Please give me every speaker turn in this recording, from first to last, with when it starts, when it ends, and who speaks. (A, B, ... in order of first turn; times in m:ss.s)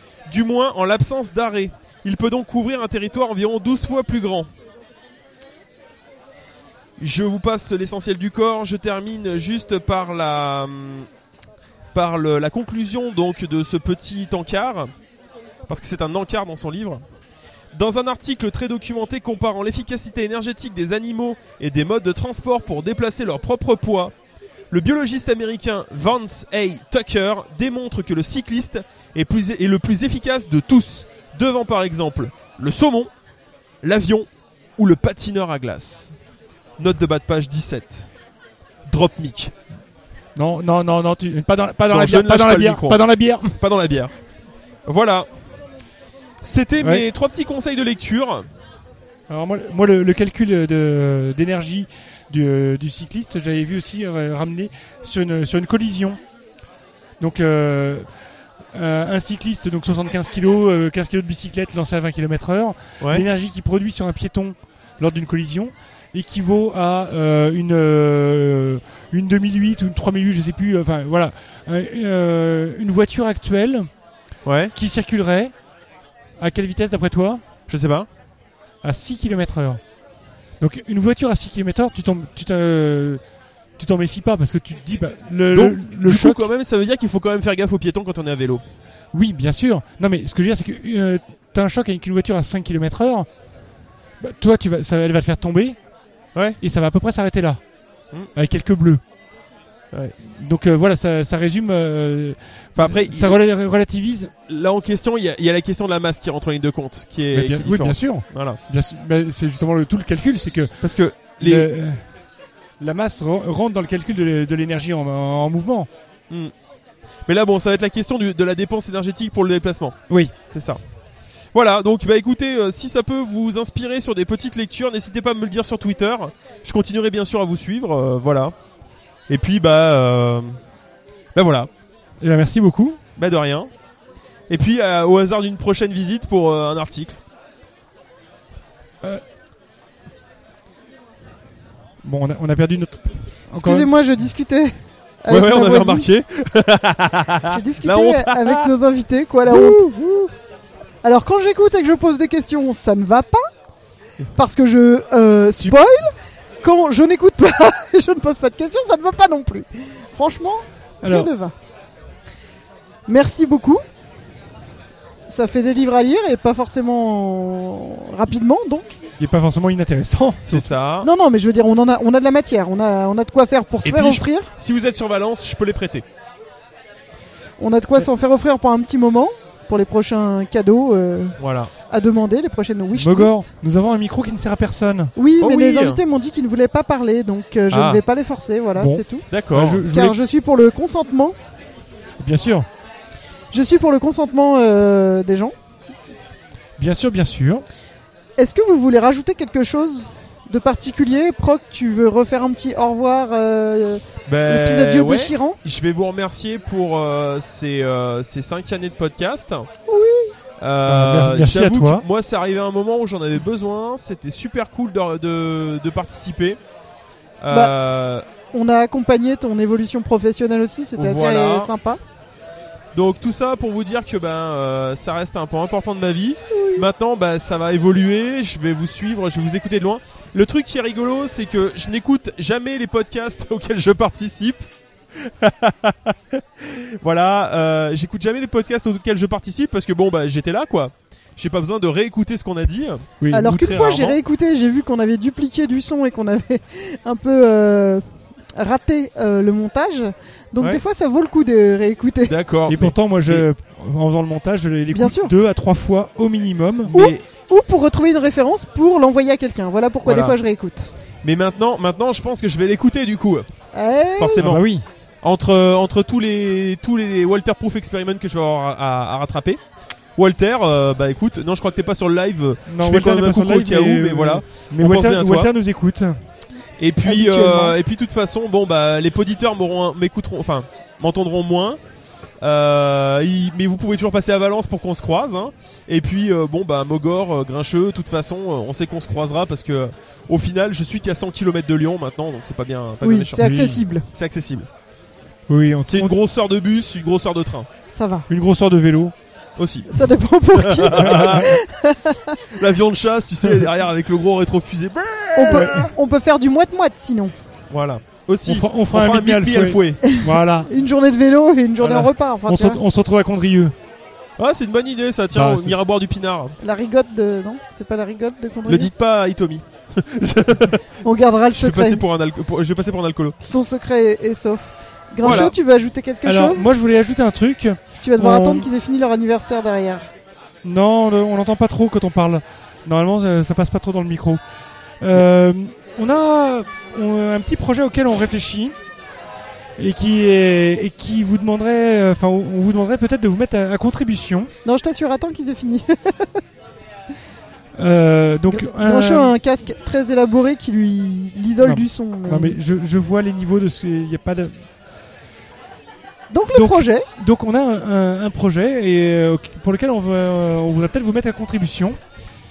0:00.3-0:04.5 A
0:07.0-0:11.1 A
0:11.9-0:14.9 A
0:15.7-0:17.0 A
0:17.7-0:24.1 A
0:24.7-0:33.1 A
0:33.8-0:36.1 A
0:36.8-0:38.1 A
0:38.9-0:39.5 A
0:40.4-0:43.6 B
0:41.9-0:44.1 A
0:44.9-0:45.3 A
0:46.4-0:48.4 A
0:46.8-0:47.0 B
0:49.3-0:56.2 B
0:57.2-0:58.1 B
0:58.7-1:13.9 B
1:14.4-1:14.7 A
1:14.7-1:15.5 B
1:16.4-1:17.4 B
1:17.7-1:18.1 A
1:18.8-1:19.8 B
1:20.6-1:23.2 B
1:23.8-1:26.5 B
1:25.5-1:28.6 A
1:29.1-1:33.3 B
1:34.2-1:35.8 B
1:36.6-1:37.6 B
1:38.3-1:39.0 B
1:40.2-1:44.3 B
1:42.8-1:43.4 A
1:44.5-1:48.6 A
1:47.3-1:50.7 B
1:50.8-1:51.7 A
1:51.4-1:52.0 B
1:52.8-1:55.9 B
1:57.3-2:00.0 A
2:00.5-2:00.8 A
2:01.5-2:08.5 A
2:09.3-2:10.6 A
2:11.3-2:11.7 A
2:12.2-2:13.0 B
2:13.2-2:13.7 A
2:14.5-2:17.2 A
2:22.0-2:23.9 B
2:23.6-2:26.1 C
2:25.3-2:28.7 A
2:27.5-2:29.9 C
2:29.4-2:30.3 A
2:31.0-2:33.4 C
2:34.3-2:36.1 C
2:36.6-2:41.5 C
2:41.0-2:41.3 B
2:43.1-2:43.8 C
2:45.3-2:49.0 C
2:49.2-2:50.7 B
2:50.4-2:51.1 A
2:51.0-2:54.5 C
2:53.8-2:56.0 A
2:57.6-3:01.4 C
3:01.4-3:01.7 A
3:01.9-3:03.3 C
3:02.9-3:05.1 B
3:05.2-3:09.2 C
3:05.4-3:06.0 A
3:07.7-3:08.0 A
3:08.8-3:10.2 B
3:09.3-3:09.9 A
3:09.9-3:11.4 C
3:12.2-3:12.7 B
3:13.5-3:15.5 C
3:16.8-3:17.6 B
3:18.4-3:25.6 C
3:24.3-3:29.7 A
3:29.9-3:30.3 C
3:30.6-3:36.6 A
3:30.9-3:32.0 B
3:37.4-3:38.2 A
3:38.5-3:42.0 C
3:41.0-3:41.7 A
3:42.9-4:04.2 A
3:46.5-3:46.8 C
4:03.2-4:03.5 B
4:03.3-4:08.0 C
4:08.6-4:12.3 C
4:12.3-4:13.4 A
4:12.7-4:16.9 B
4:14.9-4:15.3 C
4:16.9-4:17.2 A
4:16.9-4:20.9 C
4:20.0-4:20.4 A
4:21.2-4:23.5 A
4:23.7-4:24.4 C
4:24.2-4:24.6 A
4:24.4-4:24.9 B
4:25.2-4:29.6 A
4:30.2-4:35.5 A
4:32.7-4:36.2 B
4:36.8-4:41.8 A
4:37.0-4:37.8 C
4:42.4-4:53.5 A
4:53.0-4:54.0 C
4:53.4-4:53.8 B
4:54.1-4:54.7 A
4:55.5-4:56.1 B
4:55.9-4:57.7 A
4:57.9-4:58.3 C
4:58.3-4:59.1 B
4:59.6-4:59.9 A
4:59.9-5:02.4 C
5:00.5-5:01.5 A
5:00.9-5:01.5 B
5:02.5-5:05.8 A
5:05.3-5:07.3 C
5:05.5-5:05.9 B
5:07.7-5:10.0 A
5:08.4-5:10.7 B
5:10.0-5:12.8 C
5:11.8-5:12.1 A
5:12.4-5:13.7 B
5:14.4-5:16.6 A
5:15.3-5:15.8 B
5:16.6-5:18.9 C
5:18.7-5:20.8 A
5:21.0-5:22.0 C
5:21.6-5:23.4 A
5:23.5-5:26.7 C
5:25.2-5:25.6 A
5:26.2-5:28.7 B
5:28.0-5:30.1 C
5:30.6-5:34.4 B
5:35.0-5:38.8 B
5:39.8-5:44.5 B
5:44.6-5:46.3 C
5:47.8-5:49.3 B
5:48.5-5:52.6 C
5:51.6-5:54.6 B
5:56.3-5:57.1 C
5:56.5-6:02.0 B